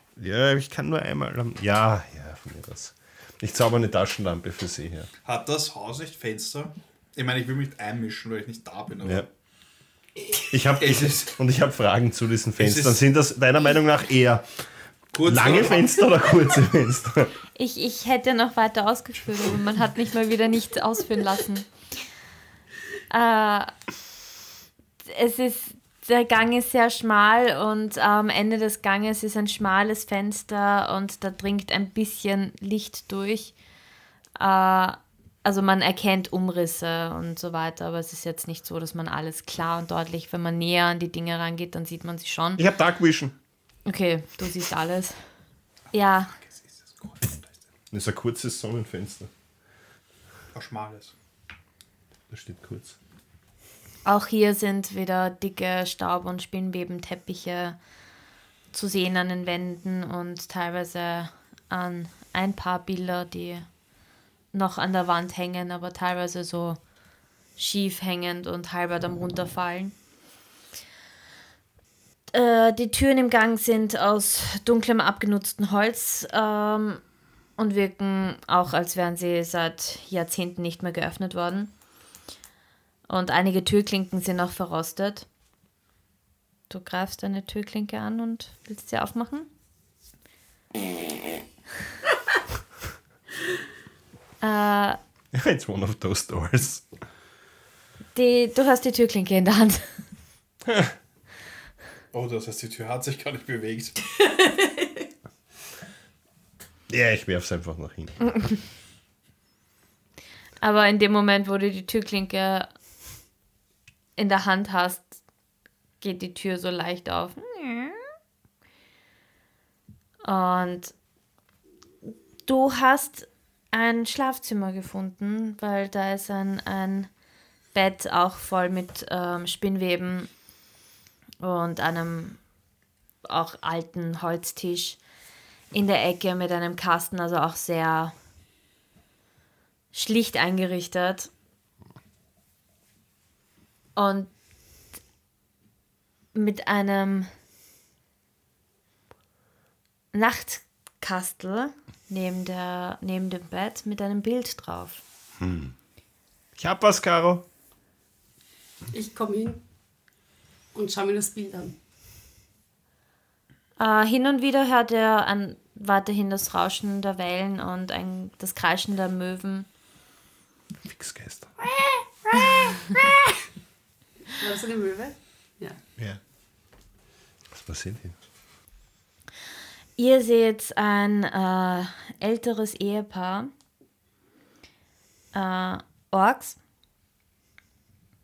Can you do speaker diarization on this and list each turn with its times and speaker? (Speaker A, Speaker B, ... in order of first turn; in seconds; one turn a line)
Speaker A: 0.2-5.1
Speaker B: 5.2-9.3
Speaker A: 10.5-14.5
Speaker B: 10.8-11.3
Speaker B: 12.6-13.1
Speaker B: 15.1-16.1
Speaker A: 15.2-17.4
Speaker C: 17.6-21.7
Speaker C: 23.1-23.7
Speaker C: 25.1-33.5
Speaker C: 34.4-42.6
Speaker A: 42.6-43.3
Speaker C: 43.9-45.2
Speaker C: 45.9-46.3
Speaker B: 46.3-47.6
Speaker A: 47.9-49.3
Speaker B: 50.5-51.1
Speaker A: 52.3-53.0
Speaker C: 54.0-57.8
Speaker C: 58.7-63.7
Speaker C: 64.5-66.8
Speaker C: 67.6-70.0
Speaker C: 72.3-77.0
Speaker C: 77.6-81.7
Speaker C: 83.1-85.3
Speaker C: 86.7-89.5
Speaker C: 94.4-95.0
Speaker A: 95.3-96.8
Speaker C: 98.2-99.9
Speaker A: 100.7-100.9
Speaker B: 102.1-104.0
Speaker D: 104.2-105.0
Speaker A: 106.9-108.2
Speaker C: 110.6-112.7
Speaker C: 114.2-115.2
Speaker C: 116.0-118.0
Speaker C: 120.2-120.9
Speaker C: 122.5-127.1
Speaker C: 127.7-130.3
Speaker C: 131.4-132.4
Speaker C: 133.3-135.0
Speaker C: 135.7-138.1
Speaker C: 139.9-141.3
Speaker C: 144.0-144.3
Speaker C: 146.3-147.3
Speaker C: 150.1-155.0
Speaker A: 155.4-155.7
Speaker A: 156.6-157.4
Speaker D: 158.9-159.6
Speaker D: 160.7-161.8
Speaker C: 163.8-169.7
Speaker A: 170.9-171.5
Speaker D: 171.6-173.4
Speaker D: 174.3-175.8
Speaker A: 177.5-178.2
Speaker C: 180.0-183.5
Speaker C: 185.3-186.6